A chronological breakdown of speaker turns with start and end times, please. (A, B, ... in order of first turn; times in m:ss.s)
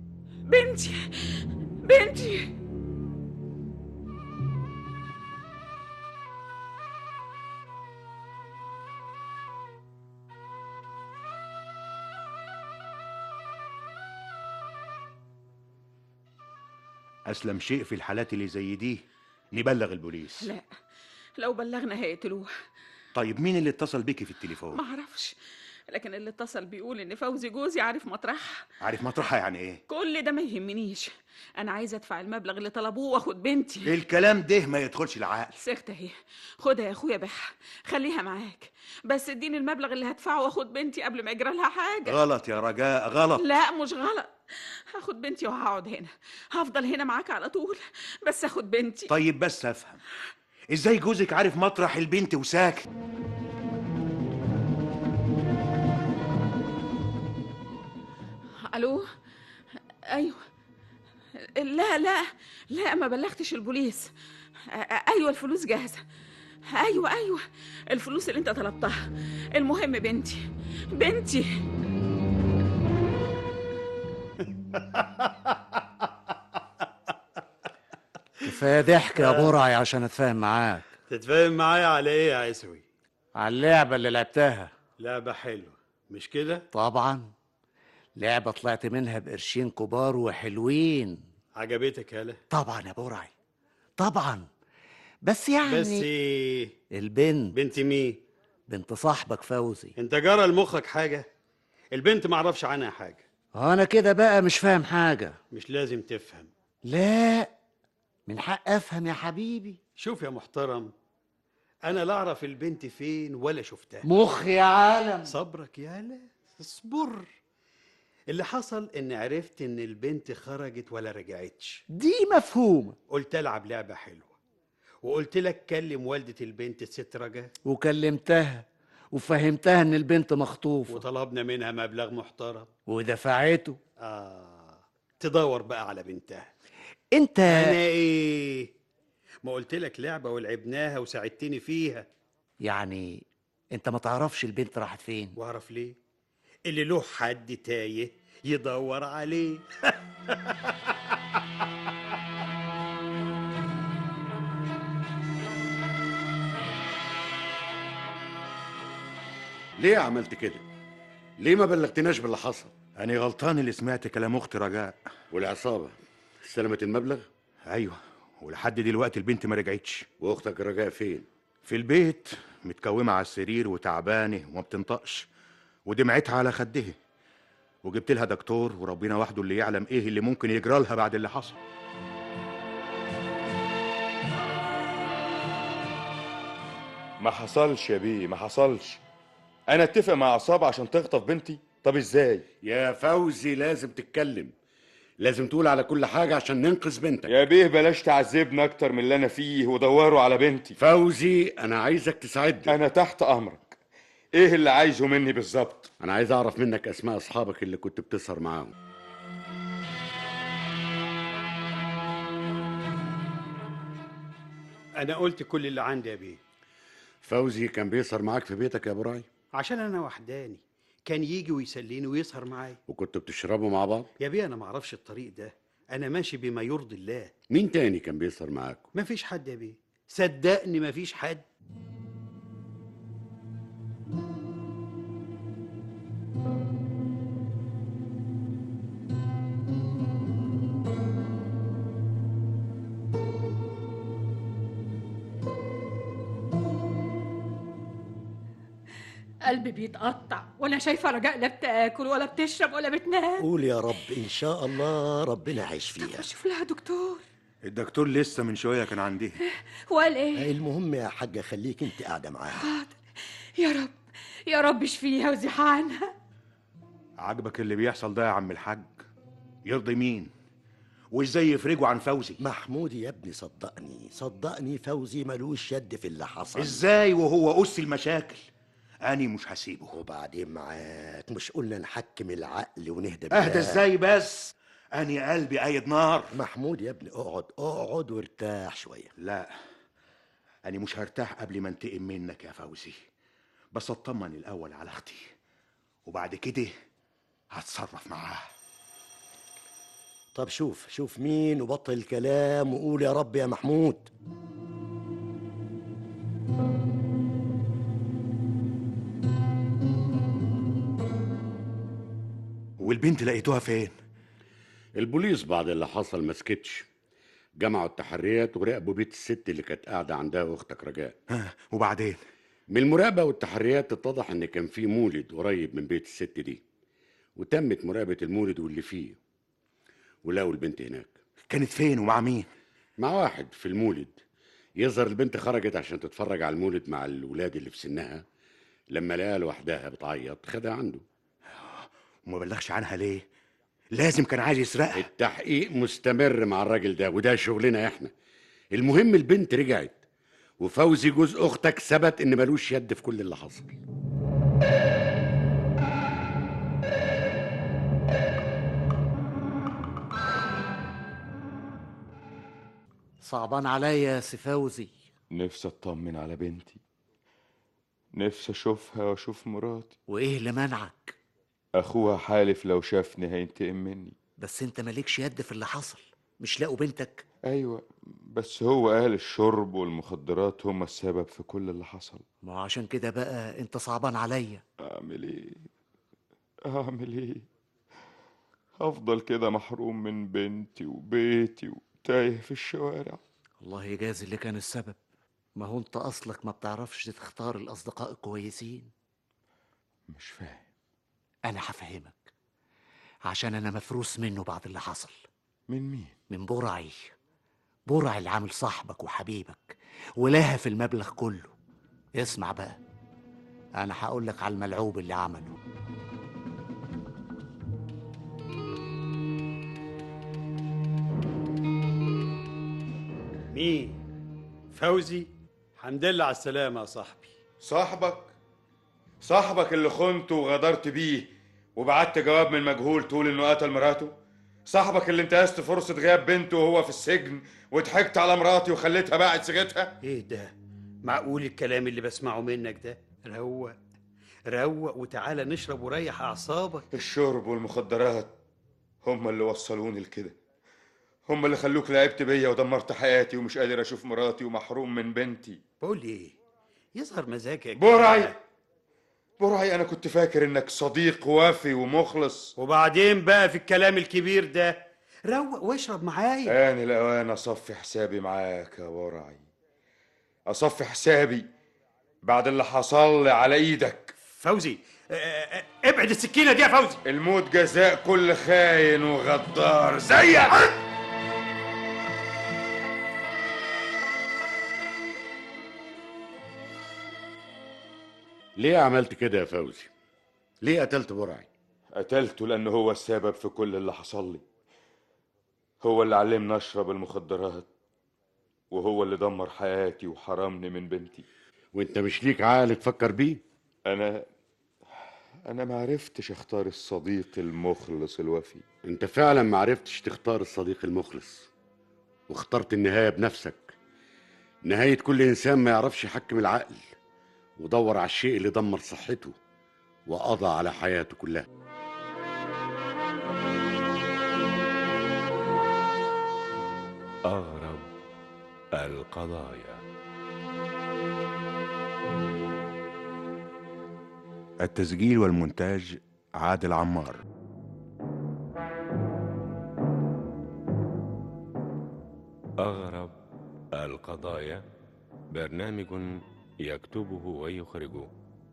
0:00.5-0:02.5 A
0:17.2-0:19.0 B
0:19.5-0:20.5 B
0:21.4-0:22.5 A
0:23.1-0:24.8 B
0:24.7-0:25.3 A
0:25.9-0:28.7 A
0:28.8-0:29.8 B
0:29.9-0:33.9 A
0:33.8-0:35.5 B
0:35.6-0:42.2 A
0:42.0-0:43.4 B
0:43.4-0:44.3 A
0:44.9-0:49.1 A
0:49.1-0:50.0 B
0:50.7-0:52.8 B
0:58.7-0:59.0 A
1:00.1-1:00.4 A
1:01.4-1:04.1 A
1:04.7-1:06.0 A
1:06.7-1:09.0 A
1:09.5-1:10.4 A
1:10.9-1:11.4 A
1:14.5-1:16.8 C
1:18.4-1:20.9 D
1:19.2-1:19.6 C
1:21.1-1:22.8 C
1:23.3-1:24.7 D
1:25.0-1:26.6 C
1:26.7-1:27.3 D
1:28.2-1:31.2 D
1:31.6-1:32.4 C
1:32.5-1:33.3 D
1:34.0-1:34.5 D
1:35.2-1:36.1 D
1:35.6-1:36.7 C
1:36.9-1:37.6 D
1:37.5-1:38.2 C
1:38.7-1:39.9 D
1:40.0-1:41.2 C
1:41.9-1:43.2 C
1:43.5-1:45.4 D
1:45.5-1:46.5 C
1:46.8-1:47.5 D
1:48.3-1:49.8 D
1:50.0-1:50.9 C
1:51.8-1:54.1 C
1:54.0-1:55.3 D
1:55.2-1:57.3 C
1:58.3-2:01.8 C
2:01.9-2:03.0 D
2:03.1-2:04.4 C
2:05.0-2:07.5 C
2:07.6-2:11.0 D
2:10.9-2:12.7 C
2:12.9-2:13.8 D
2:14.0-2:16.5 C
2:17.1-2:17.8 D
2:17.5-2:18.7 C
2:19.4-2:22.0 C
2:22.6-2:25.4 D
2:25.4-2:26.0 C
2:26.6-2:31.4 C
2:39.8-2:40.6 E
2:41.4-2:42.7 E
2:43.0-2:45.0 B
2:45.3-2:47.3 E
2:47.7-2:50.1 B
2:50.2-2:51.2 E
2:51.6-2:55.3 B
2:55.8-2:56.9 B
2:57.8-3:01.6 B
3:07.2-3:09.0 F
3:09.7-3:12.4 F
3:12.6-3:14.5 E
3:15.2-3:17.3 E
3:17.3-3:20.8 F
3:20.8-3:22.7 E
3:22.7-3:23.8 F
3:24.3-3:25.9 F
3:26.0-3:28.7 E
3:35.0-3:36.4 C
3:37.2-3:39.3 E
3:39.6-3:42.8 C
3:42.9-3:44.1 E
3:44.2-3:47.3 C
3:47.5-3:48.9 E
3:48.9-3:51.4 C
4:09.4-4:13.5 G
4:13.4-4:16.3 H
4:16.0-4:17.2 G
4:17.6-4:19.4 B
4:19.4-4:20.5 G
4:20.4-4:22.7 H
4:22.5-4:23.0 G
4:23.6-4:26.1 G
4:27.2-4:29.0 B
4:29.6-4:30.3 B
4:31.1-4:32.4 B
4:32.4-4:36.8 H
4:36.6-4:38.4 B
4:39.0-4:39.9 B
4:39.9-4:43.8 H
4:43.3-4:46.3 B
4:46.3-4:49.1 H
4:49.2-4:49.5 B
4:50.6-4:53.0 B
4:53.7-4:55.3 B
4:56.0-4:56.7 B
4:57.5-4:58.5 B
5:00.3-5:04.1 H
5:12.8-5:13.9 B
5:15.0-5:16.8 E
5:17.6-5:21.1 E
5:21.3-5:22.2 B
5:22.7-5:26.6 E
5:27.4-5:29.2 E
5:30.2-5:31.1 E
5:31.5-5:32.5 B
5:33.0-5:34.2 E
5:34.8-5:38.2 E
5:38.9-5:41.0 E
5:41.6-5:43.2 B
5:43.9-5:45.1 B
5:44.9-5:48.1 E
5:48.7-5:50.0 E
5:50.6-5:53.8 E
6:03.2-6:04.9 D
6:05.3-6:06.8 F
6:08.1-6:09.9 F
6:10.1-6:11.2 D
6:11.7-6:14.2 F
6:14.4-6:17.2 D
6:17.4-6:22.2 F
6:22.4-6:24.6 D
6:24.8-6:25.7 F
6:26.6-6:27.4 F
6:28.8-6:33.2 F
6:33.6-6:35.0 D
6:35.6-6:38.9 D
6:40.1-6:40.6 F
6:41.4-6:42.3 D
6:43.2-6:45.2 D
6:45.7-6:46.2 F
6:46.3-6:47.1 D
6:47.9-6:51.5 D
6:52.2-6:52.8 D
6:53.8-6:55.6 D
7:03.5-7:04.0 C
7:04.7-7:07.3 C
7:07.6-7:08.3 F
7:09.2-7:14.1 F
7:14.7-7:20.0 F
7:20.0-7:23.7 C
7:24.5-7:26.9 C
7:26.9-7:28.3 F
7:29.0-7:30.3 F
7:31.3-7:35.6 F
7:35.8-7:36.4 C
7:36.9-7:38.3 C
7:37.8-7:38.4 F
7:39.4-7:42.5 F
7:42.6-7:46.6 C
7:46.5-7:49.4 F
7:50.5-7:51.5 F
7:52.2-7:54.1 F
7:54.3-7:57.0 C
7:57.0-8:00.8 F
8:08.6-8:09.9 E
8:10.6-8:11.5 E
8:11.9-8:14.4 F
8:15.8-8:17.7 F
8:18.7-8:21.2 F
8:21.7-8:23.4 E
8:23.9-8:24.3 F
8:25.4-8:28.6 F
8:28.8-8:31.5 E
8:32.3-8:33.7 E
8:34.6-8:36.8 E
8:37.6-8:39.3 E
8:40.1-8:41.4 E
8:47.3-8:47.9 I
8:48.7-8:49.8 I
8:54.6-8:57.2 B
9:02.6-9:03.2 I
9:03.7-9:04.6 I
9:05.3-9:08.1 I